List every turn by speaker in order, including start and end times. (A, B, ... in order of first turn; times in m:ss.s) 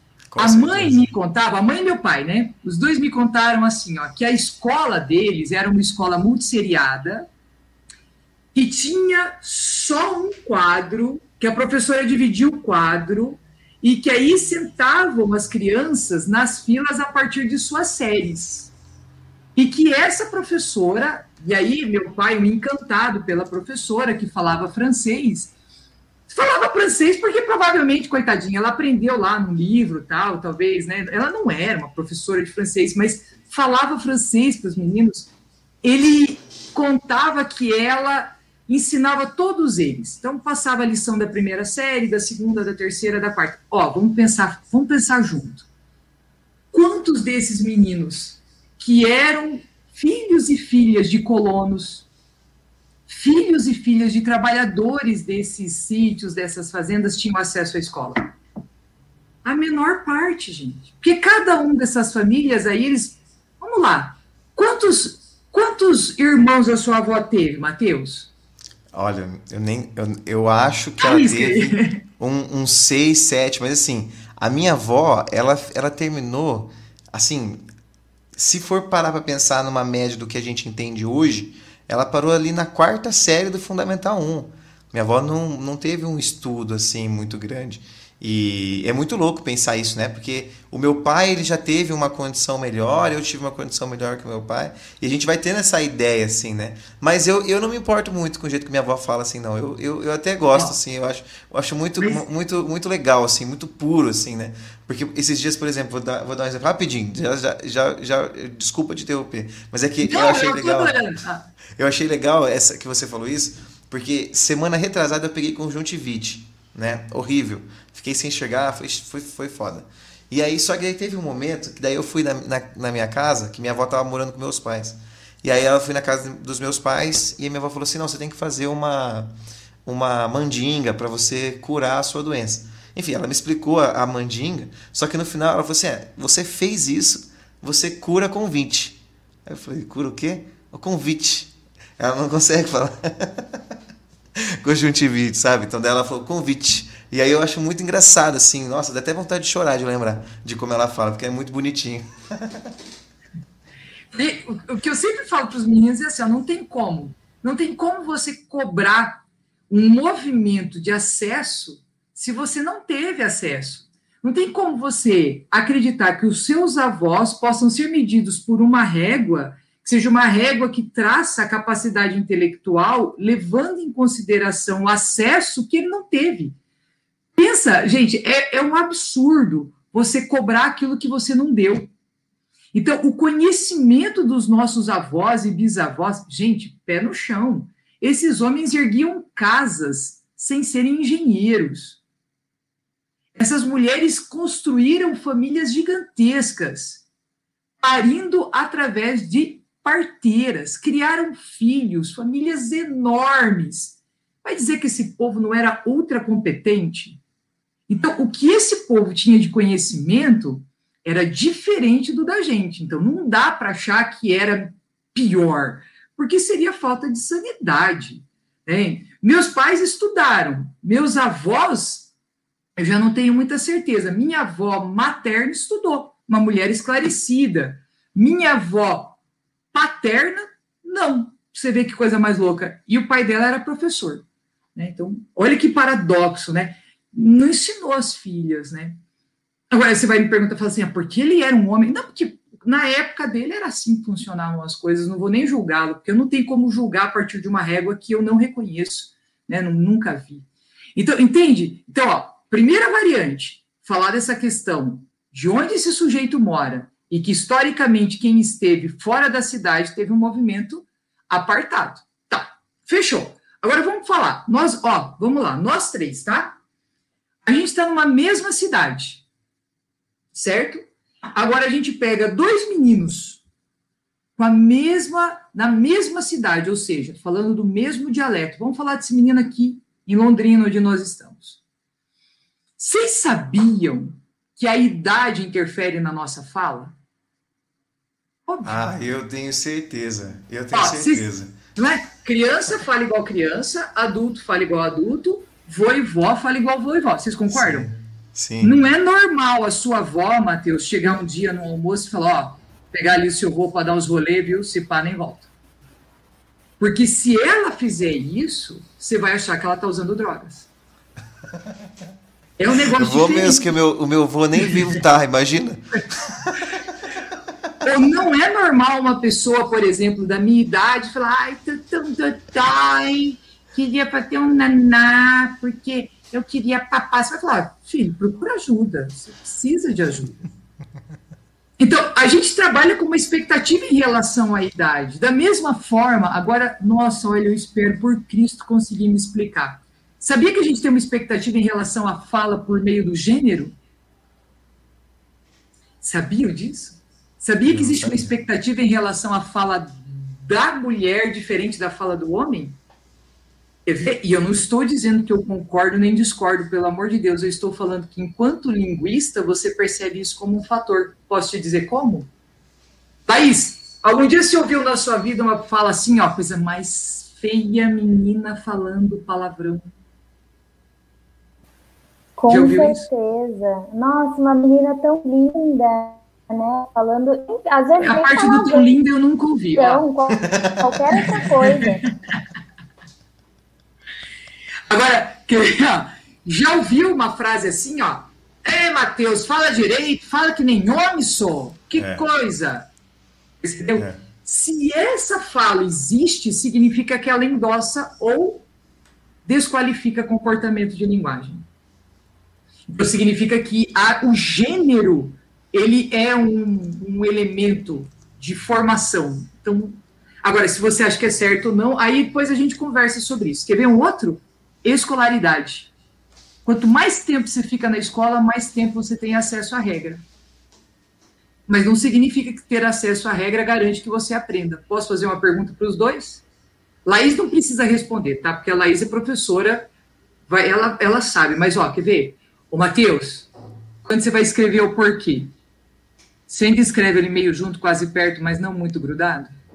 0:00.3-0:01.0 A
0:00.4-0:07.3 B
0:08.5-0:18.7 B
0:19.6-0:25.5 B
0:26.3-0:35.3 B
0:35.8-0:45.7 B
0:46.7-0:52.1 B
0:53.1-0:58.3 B
0:59.4-1:08.3 B
1:08.9-1:17.6 A
1:11.0-1:12.0 B
1:18.3-1:51.0 A
1:50.0-1:51.4 B
1:51.8-2:09.3 A
2:09.8-2:23.6 A
2:24.4-2:32.7 A
2:34.1-2:56.6 B
2:57.4-3:01.9 B
3:02.7-3:12.0 B
3:13.3-3:17.0 B
3:17.8-3:27.2 B
3:27.9-3:42.1 B
3:42.8-3:49.2 B
3:49.7-3:54.2 B
3:54.8-3:59.0 B
3:59.7-4:26.6 B
4:27.4-4:29.2 B
4:30.3-4:30.8 B
4:31.3-4:33.4 B
4:34.4-4:41.6 B
4:42.8-4:46.9 B
4:48.4-4:49.0 B
4:48.6-4:51.6 A
4:50.7-4:57.9 B
4:57.5-4:58.7 A
4:58.6-5:05.5 B
5:06.8-5:10.7 B
5:12.6-5:13.7 B
5:12.9-5:16.4 A
5:17.8-5:30.5 B
5:31.8-5:43.7 B
5:46.0-5:52.8 B
5:47.7-5:48.3 A
5:53.8-6:02.3 B
6:03.3-6:09.8 B
6:12.4-6:19.0 C
6:12.5-6:13.1 B
6:18.0-6:20.0 B
6:19.8-6:22.0 C
6:20.4-6:21.0 A
6:21.2-6:22.1 B
6:24.9-6:32.9 B
6:31.9-6:32.2 A
6:33.6-6:38.6 B
6:39.4-6:41.6 B
6:42.9-6:55.9 B
6:56.6-7:00.2 B
7:01.7-7:06.4 B
7:07.0-7:09.9 B
7:10.5-7:13.5 B
7:14.0-7:15.5 B
7:16.5-7:19.5 B